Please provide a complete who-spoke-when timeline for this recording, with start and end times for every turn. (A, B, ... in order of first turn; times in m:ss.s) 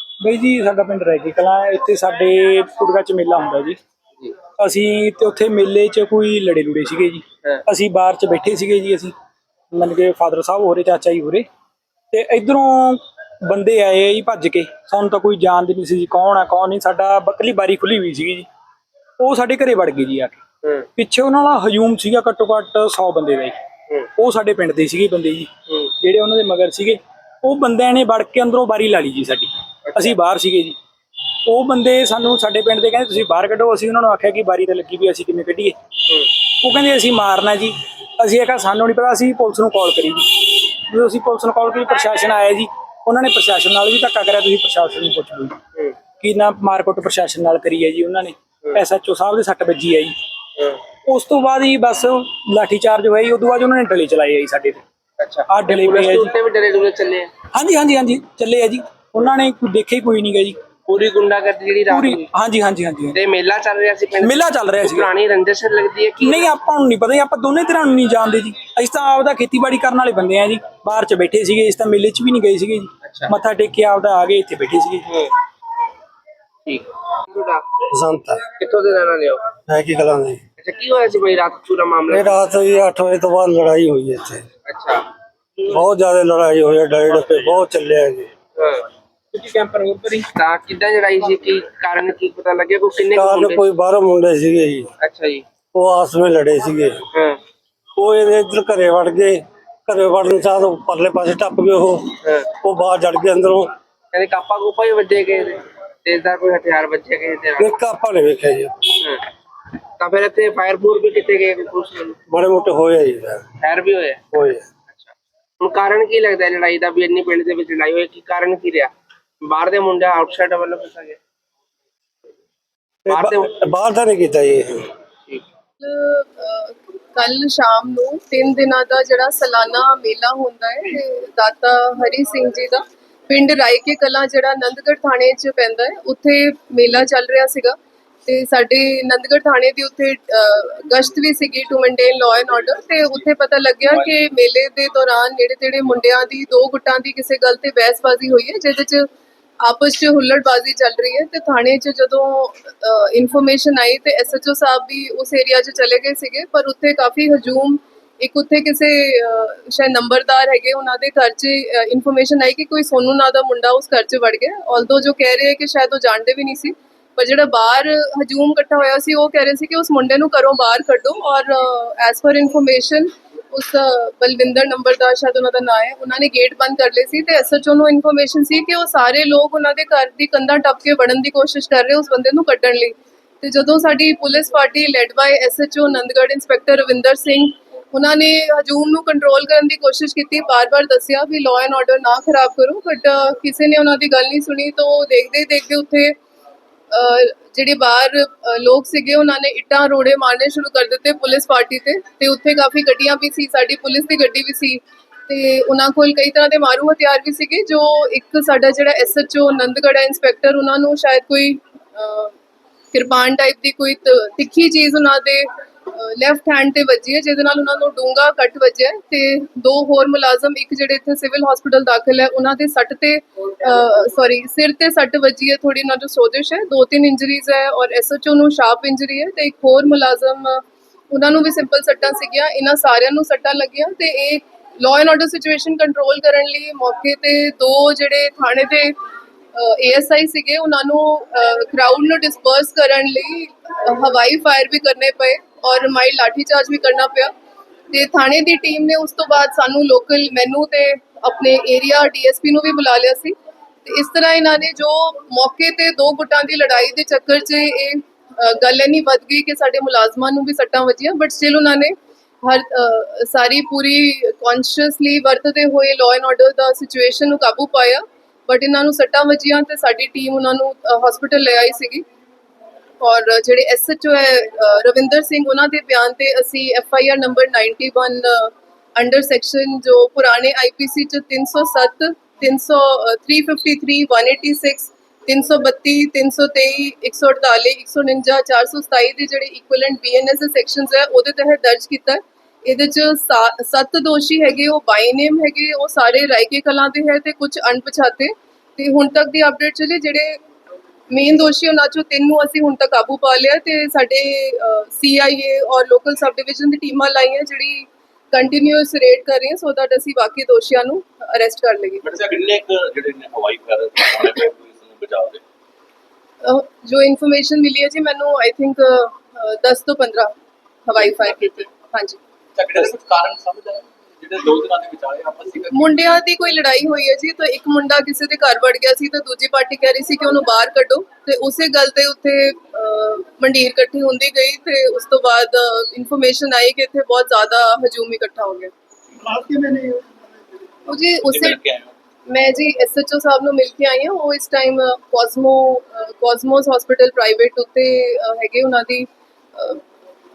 0:00.2-0:03.8 A
0:04.6-0:09.2 A
0:09.7-0:11.5 A
0:12.1-0:18.5 A
0:19.2-0:20.4 A
0:21.0-0:23.6 A
0:24.2-0:30.8 A
0:29.8-0:30.2 B
0:31.4-0:35.8 A
0:36.3-0:45.6 A
0:46.2-0:50.2 A
0:51.1-0:54.8 A
0:55.2-0:57.3 B
0:55.5-0:56.3 A
0:57.5-1:00.6 A
1:00.9-1:02.3 B
1:01.9-1:03.2 A
1:03.1-1:06.5 B
1:04.2-1:05.1 A
1:06.2-1:15.1 A
1:13.0-1:13.3 B
1:15.1-1:15.3 B
1:16.7-1:17.7 B
1:17.9-1:18.5 C
1:18.6-1:19.5 B
1:19.7-1:20.4 C
1:20.6-1:22.4 B
1:22.1-1:24.4 C
1:24.7-1:25.1 B
1:25.7-1:28.3 C
1:27.2-1:27.5 B
1:28.6-1:28.8 B
1:29.3-1:30.3 A
1:30.3-1:33.6 B
1:33.1-1:34.9 C
1:35.0-1:35.4 B
1:35.7-1:37.0 C
1:37.1-1:37.4 B
1:38.0-1:43.7 C
1:42.2-1:42.5 B
1:44.1-1:47.7 B
1:47.6-1:48.9 C
1:50.0-1:52.2 B
1:52.3-1:53.5 C
1:53.6-1:54.2 B
1:54.3-1:54.6 C
1:54.9-1:58.9 B
1:59.4-2:01.2 B
2:03.1-2:04.9 C
2:03.1-2:03.6 B
2:05.8-2:29.1 D
2:29.6-3:16.2 D
3:16.9-3:32.4 D
3:32.9-3:59.0 D
3:59.5-4:07.3 D
4:07.9-4:32.0 D
4:33.0-5:00.4 D
5:01.1-5:12.0 D
5:12.0-5:15.4 E
5:16.4-5:20.3 D
5:20.8-5:22.2 D
5:22.6-5:26.2 E
5:25.7-5:38.7 D
5:39.3-5:39.9 D
5:40.9-5:41.6 D
5:41.2-5:41.9 E
5:42.3-5:49.8 D